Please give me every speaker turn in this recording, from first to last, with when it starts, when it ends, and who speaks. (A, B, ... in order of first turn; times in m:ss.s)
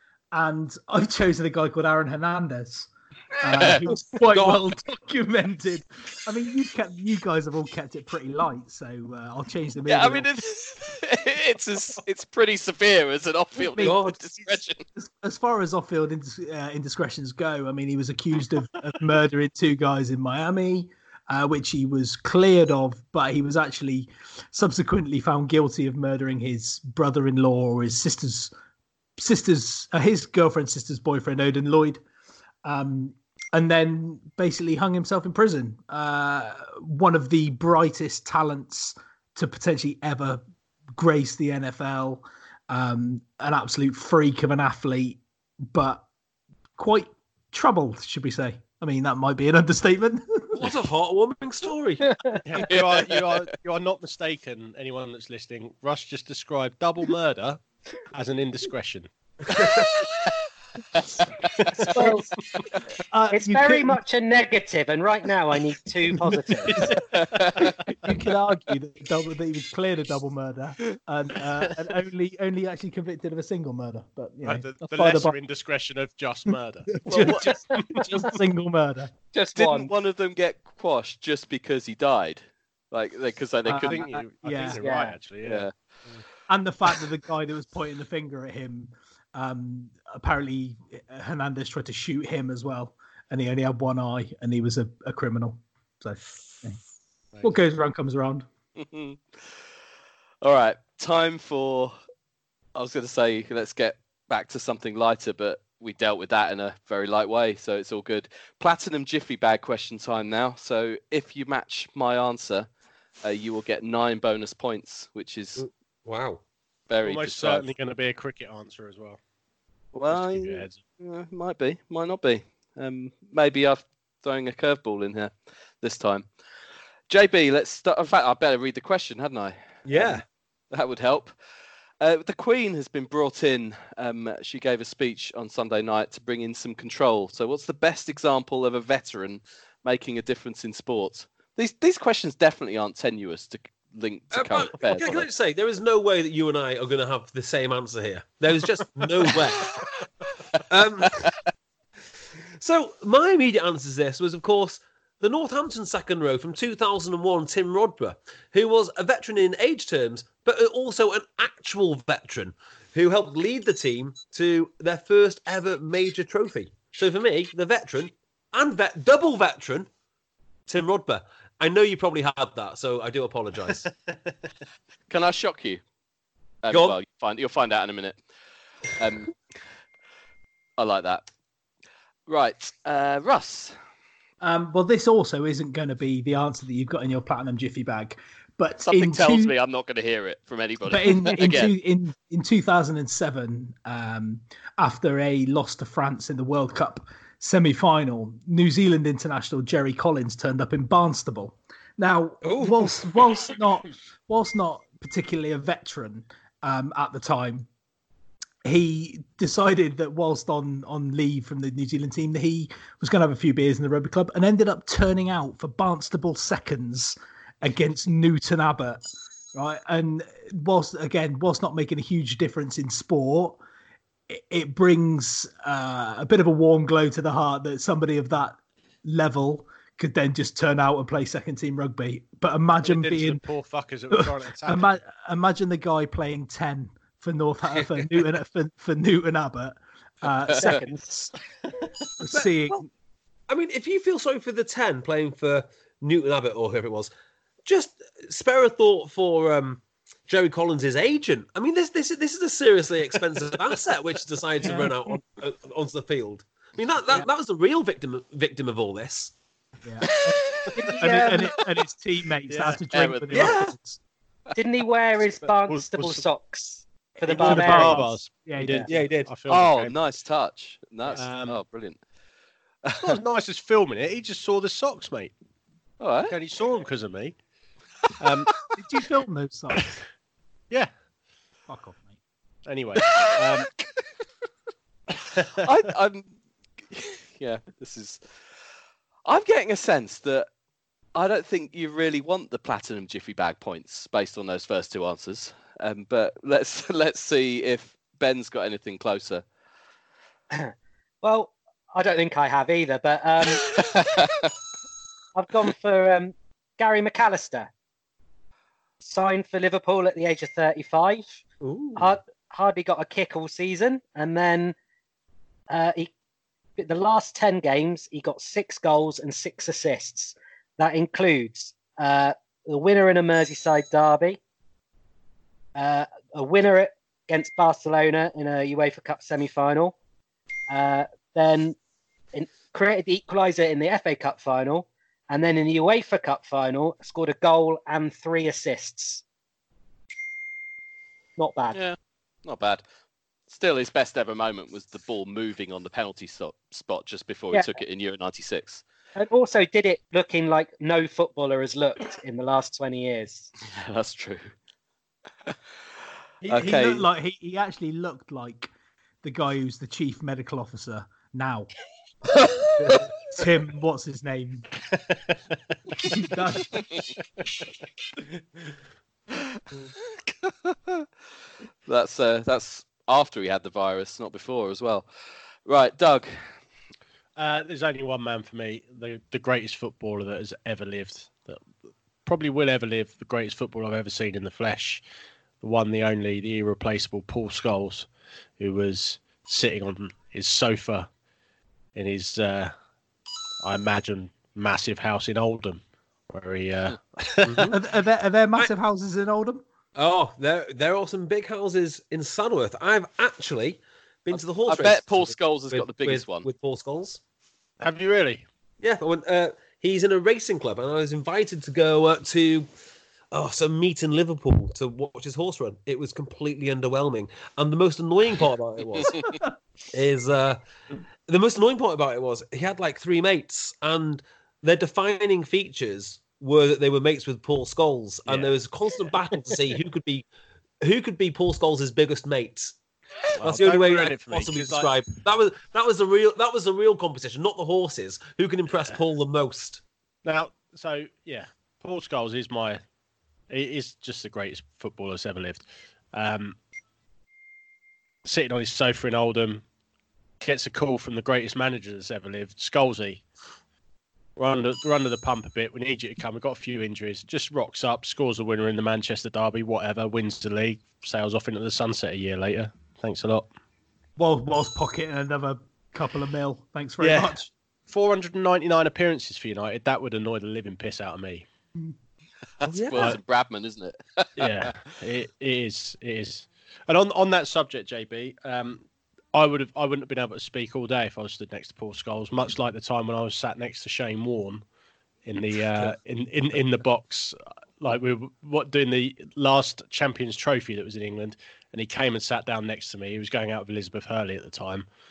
0:00.3-0:10.2 A
0:03.5-0:03.8 B
0:03.9-0:04.6 C
0:09.9-0:14.8 B
0:13.7-0:14.0 A
0:13.8-0:14.4 C
0:14.9-0:28.5 A
0:29.2-0:32.0 A
0:32.6-0:40.4 A
0:41.0-0:45.2 A
0:45.7-0:46.0 A
0:46.8-0:50.6 A
0:50.6-0:52.1 C
0:52.0-0:52.4 D
0:52.4-0:57.6 E
0:52.6-0:53.4 B
0:58.1-0:59.1 E
0:59.5-0:59.8 C
1:01.0-1:01.3 B
1:01.9-1:02.2 D
1:03.1-1:04.0 A
1:03.3-1:06.8 D
1:06.7-1:07.0 E
1:07.1-1:07.8 B
1:07.6-1:15.3 A
1:14.4-1:17.0 E
1:16.9-1:19.1 A
1:17.1-1:17.4 B
1:17.7-1:18.0 D
1:19.3-1:19.9 D
1:19.6-1:24.1 B
1:23.6-1:24.8 A
1:23.7-1:26.2 E
1:24.8-1:25.2 D
1:25.4-1:25.7 B
1:26.5-1:36.8 A
1:37.4-1:38.4 A
1:38.8-1:39.6 B
1:40.4-1:42.0 B
1:42.7-1:52.7 B
1:53.2-1:55.6 B
1:55.6-1:56.4 C
1:56.9-1:57.6 B
1:57.0-1:59.2 E
1:59.9-2:06.3 B
2:00.1-2:00.8 E
2:07.1-2:11.3 B
2:09.8-2:10.2 C
2:12.0-2:25.2 B
2:24.3-2:29.8 C
2:30.7-2:31.3 C
2:32.6-2:49.9 C
2:50.7-2:53.9 C
2:55.1-2:55.8 B
2:56.6-2:58.2 B
2:56.7-2:57.0 C
2:59.0-2:59.3 B
3:00.8-3:01.2 B
3:02.3-3:03.8 B
3:04.4-3:09.5 A
3:08.8-3:11.7 B
3:10.9-3:27.7 A
3:22.4-3:23.4 C
3:28.6-3:39.0 A
3:39.5-3:43.6 A
3:44.3-3:53.4 A
3:52.8-3:55.0 E
3:54.1-4:01.3 A
4:00.5-4:00.8 B
4:00.6-4:01.2 D
4:02.2-4:02.9 A
4:03.5-4:07.1 C
4:07.6-4:19.3 C
4:19.8-4:20.1 A
4:20.1-4:20.9 B
4:20.8-4:21.5 D
4:21.0-4:24.0 A
4:22.5-4:22.8 E
4:22.9-4:23.6 B
4:23.3-4:23.8 C
4:24.5-4:28.1 D
4:25.4-4:26.2 E
4:27.2-4:28.8 A
4:27.3-4:30.0 E
4:28.9-4:29.3 C
4:29.5-4:32.0 B
4:31.1-4:31.6 E
4:32.8-4:33.2 B
4:33.0-4:35.3 E
4:36.0-4:36.3 B
4:36.3-4:37.4 E
4:38.2-4:38.6 E
4:38.8-4:39.9 A
4:41.7-4:42.2 A
4:42.6-4:43.7 E
4:45.6-4:46.3 B
4:46.9-4:48.2 B
4:49.2-4:50.5 B
4:51.1-4:59.4 B
5:00.5-5:03.6 D
5:03.5-5:04.5 B
5:05.3-5:07.7 D
5:09.0-5:11.4 D
5:11.6-5:12.2 C
5:12.0-5:14.7 D
5:15.7-5:16.1 D
5:16.8-5:24.4 D
5:25.8-5:29.9 D
5:30.7-5:31.8 D
5:32.3-5:39.2 D
5:41.4-5:41.8 D
5:41.7-5:42.8 B
5:43.5-5:48.8 B
5:49.2-5:53.5 D
5:53.6-5:54.5 B
5:56.4-5:58.7 A
5:56.5-5:57.0 B
5:59.2-6:01.7 A
6:03.3-6:04.7 A
6:06.1-6:06.8 A
6:10.4-6:11.0 B
6:11.9-6:15.1 B
6:15.6-6:16.3 B
6:17.4-6:21.7 E
6:22.2-6:25.0 E
6:25.6-6:28.1 E
6:28.6-6:31.1 E
6:32.0-6:32.7 E
6:33.6-6:37.7 E
6:37.4-6:37.8 C
6:37.7-6:39.6 A
6:39.9-6:47.2 C
6:44.3-6:46.5 B
6:47.8-6:48.4 E
6:48.8-6:52.7 C
6:53.3-6:59.1 C
6:59.9-7:00.6 C
7:01.3-7:10.2 C
7:08.3-7:08.5 E
7:10.8-7:12.7 C
7:13.4-7:19.8 C
7:13.4-7:14.9 E
7:20.2-7:22.8 E
7:23.5-7:26.5 E
7:28.2-7:29.6 E
7:30.4-7:33.2 E
7:34.4-7:43.5 E
7:44.2-7:47.5 A
7:47.0-7:47.4 E
7:47.9-7:51.4 E
7:52.6-7:54.7 B
7:52.6-7:53.2 C
7:54.4-8:04.6 E
8:05.2-8:14.8 E